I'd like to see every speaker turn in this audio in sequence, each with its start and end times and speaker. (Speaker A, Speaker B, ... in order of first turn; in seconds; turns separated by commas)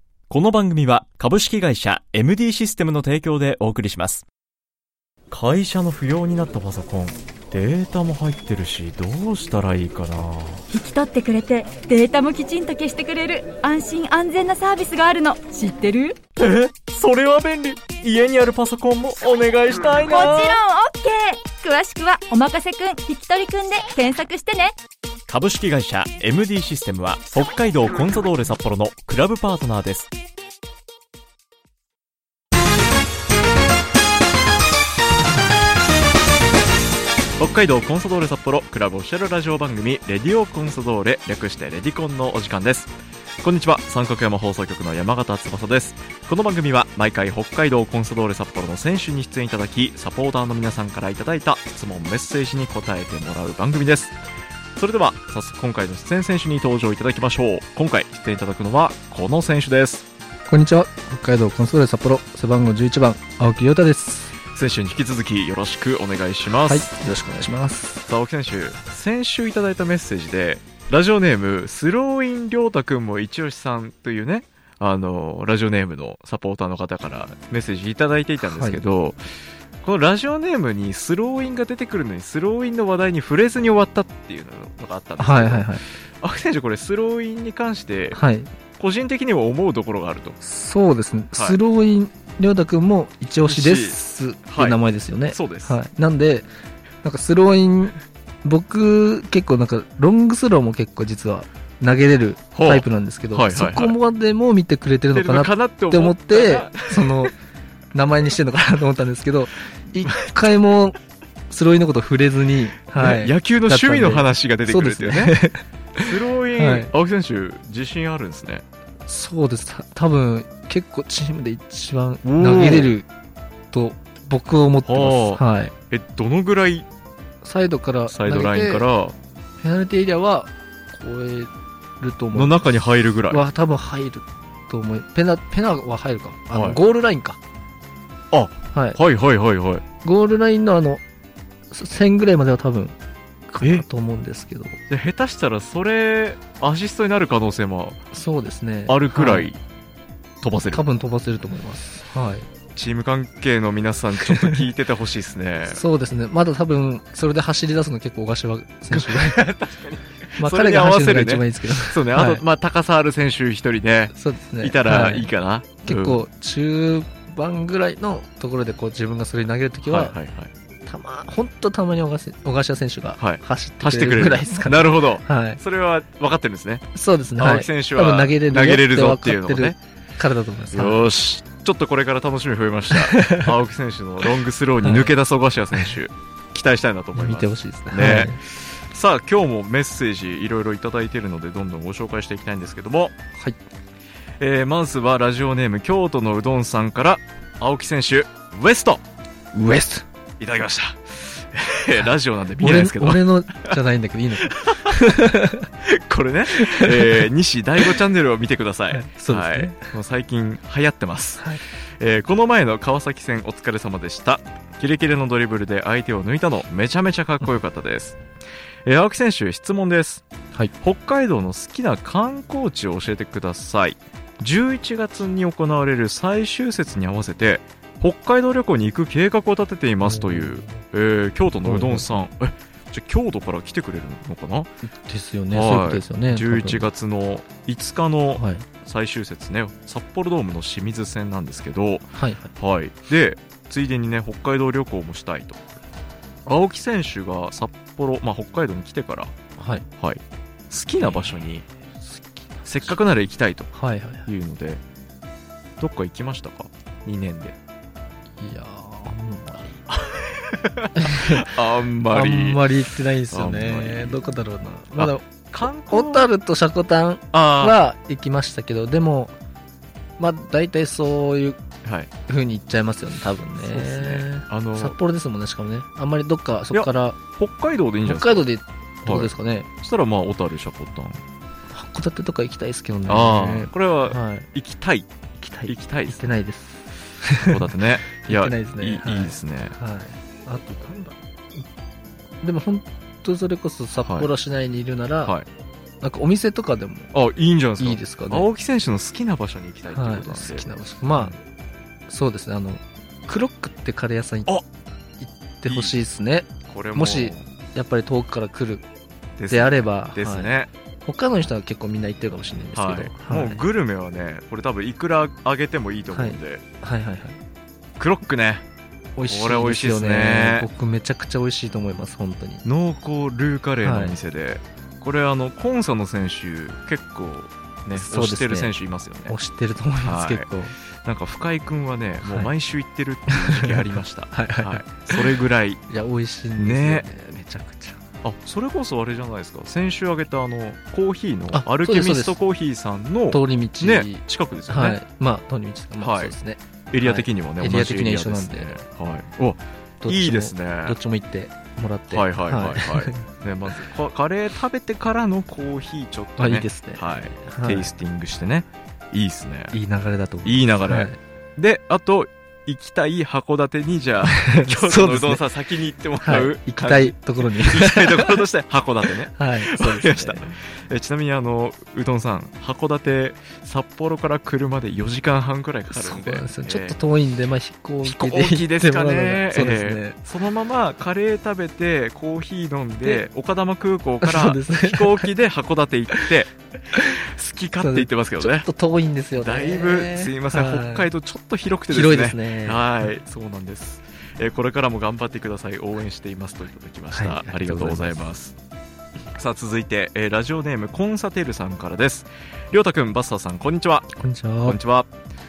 Speaker A: 0.3-4.2, Speaker A: 5.3-10.7, Speaker B: 10.7-16.2, Speaker A: 16.4-20.6, Speaker B: 20.0-24.8, Speaker A: 25.3-30.1, Speaker A: 37.4-54.2, Speaker A: 54.8-60.1, Speaker C: 60.5-64.3, Speaker A: 64.5-66.9, Speaker C: 66.7-68.0, Speaker A: 68.0-79.2, Speaker C: 78.4-78.8, Speaker A: 79.8-88.2, Speaker C: 85.2-85.8, Speaker C: 88.1-88.5, Speaker A: 88.8-90.4, Speaker C: 90.4-96.5, Speaker A: 91.3-91.6, Speaker A: 93.4-94.8, Speaker A: 95.3-95.8, Speaker C: 97.0-107.4, Speaker A: 102.5-104.0, Speaker A: 105.1-107.3, Speaker C: 107.9-111.0, Speaker A: 110.0-110.3, Speaker C: 111.5-116.0, Speaker A: 112.9-115.3, Speaker A: 116.0-118.6, Speaker C: 116.5-116.9, Speaker C: 119.1-123.1, Speaker A: 122.2-123.0, Speaker C: 123.7-125.7, Speaker A: 124.8-126.9, Speaker C: 127.4-128.9, Speaker A: 128.1-129.2, Speaker C: 129.6-132.7, Speaker A: 132.3-133.4, Speaker C: 133.3-137.4, Speaker A: 136.5-136.8, Speaker A: 138.3-139.8, Speaker C: 138.7-139.0, Speaker C: 140.0-141.0, Speaker C: 141.7-143.0, Speaker C: 143.5-144.8, Speaker A: 144.9-148.0, Speaker C: 148.1-149.5, Speaker A: 148.9-149.6, Speaker A: 150.4-150.8, Speaker C: 150.7-152.5, Speaker A: 152.8-155.8, Speaker C: 154.2-154.6, Speaker C: 155.7-159.4, Speaker A: 158.9-166.2, Speaker C: 160.4-162.4, Speaker C: 164.1-170.2, Speaker A: 169.9-170.5, Speaker C: 170.9-175.6, Speaker A: 173.2-179.8, Speaker C: 176.9-181.0, Speaker A: 180.7-193.1, Speaker C: 182.9-183.5, Speaker C: 184.8-185.1, Speaker C: 187.2-188.4, Speaker A: 194.4-199.0, Speaker C: 199.5-200.1, Speaker A: 200.4-203.3, Speaker C: 202.0-205.7, Speaker A: 204.4-204.9, Speaker A: 205.8-211.5, Speaker C: 206.5-207.3, Speaker C: 208.9-209.8, Speaker A: 212.0-218.2, Speaker A: 218.9-220.2, Speaker A: 220.8-234.7, Speaker C: 230.0-230.8, Speaker C: 231.6-232.1, Speaker C: 234.8-236.9, Speaker A: 235.5-245.6, Speaker C: 238.3-238.7, Speaker C: 242.2-242.5, Speaker A: 246.5-249.3, Speaker C: 249.6-249.9, Speaker A: 250.0-251.7, Speaker C: 251.0-251.3, Speaker C: 252.0-252.9, Speaker A: 252.7-253.7, Speaker C: 253.7-254.3, Speaker A: 254.3-254.8, Speaker A: 255.8-257.6, Speaker C: 258.4-259.8, Speaker A: 259.9-262.7, Speaker C: 261.0-261.5, Speaker C: 262.1-269.4, Speaker A: 263.3-264.2, Speaker A: 265.0-266.3, Speaker A: 267.3-267.8, Speaker C: 270.2-271.6, Speaker A: 271.9-272.1, Speaker C: 272.3-277.2, Speaker A: 273.6-275.0, Speaker A: 276.7-278.5, Speaker C: 278.1-279.7, Speaker A: 279.1-281.2, Speaker C: 281.7-284.5, Speaker A: 283.1-285.1, Speaker C: 285.4-287.6, Speaker A: 285.7-286.3, Speaker A: 287.4-289.8, Speaker C: 288.3-291.6, Speaker C: 292.4-295.4, Speaker A: 294.0-294.3, Speaker C: 296.0-297.1, Speaker A: 297.1-301.4, Speaker C: 297.8-298.5, Speaker C: 299.9-301.4, Speaker C: 302.1-304.6, Speaker C: 305.2-308.9, Speaker A: 305.7-306.0, Speaker A: 306.7-307.5, Speaker A: 309.4-310.7, Speaker C: 309.5-310.5, Speaker C: 311.0-313.6, Speaker A: 312.8-316.6, Speaker C: 316.1-317.4, Speaker A: 318.0-318.6, Speaker C: 319.2-322.6, Speaker A: 319.3-320.7, Speaker A: 322.6-329.4, Speaker C: 323.8-324.2, Speaker C: 327.9-328.7, Speaker C: 329.3-330.8, Speaker A: 330.0-330.5, Speaker A: 331.1-335.8, Speaker C: 332.2-332.5, Speaker C: 333.3-333.7, Speaker C: 334.3-335.3, Speaker C: 335.9-338.0, Speaker A: 336.6-337.1, Speaker A: 338.2-345.0, Speaker C: 341.5-342.4, Speaker C: 343.3-348.8, Speaker A: 346.0-346.3, Speaker A: 346.9-351.0, Speaker C: 350.0-353.3, Speaker A: 352.1-359.7, Speaker C: 356.4-357.9, Speaker C: 359.7-361.2, Speaker A: 360.4-377.0, Speaker C: 364.2-365.4, Speaker C: 366.2-368.4, Speaker C: 369.3-370.5, Speaker C: 375.9-380.2, Speaker A: 378.0-386.5, Speaker C: 384.2-385.3, Speaker A: 387.2-388.7, Speaker C: 387.8-391.1, Speaker A: 389.4-398.6, Speaker C: 391.9-393.1, Speaker C: 397.1-398.2, Speaker A: 399.4-404.1, Speaker C: 404.2-404.8, Speaker A: 404.6-405.1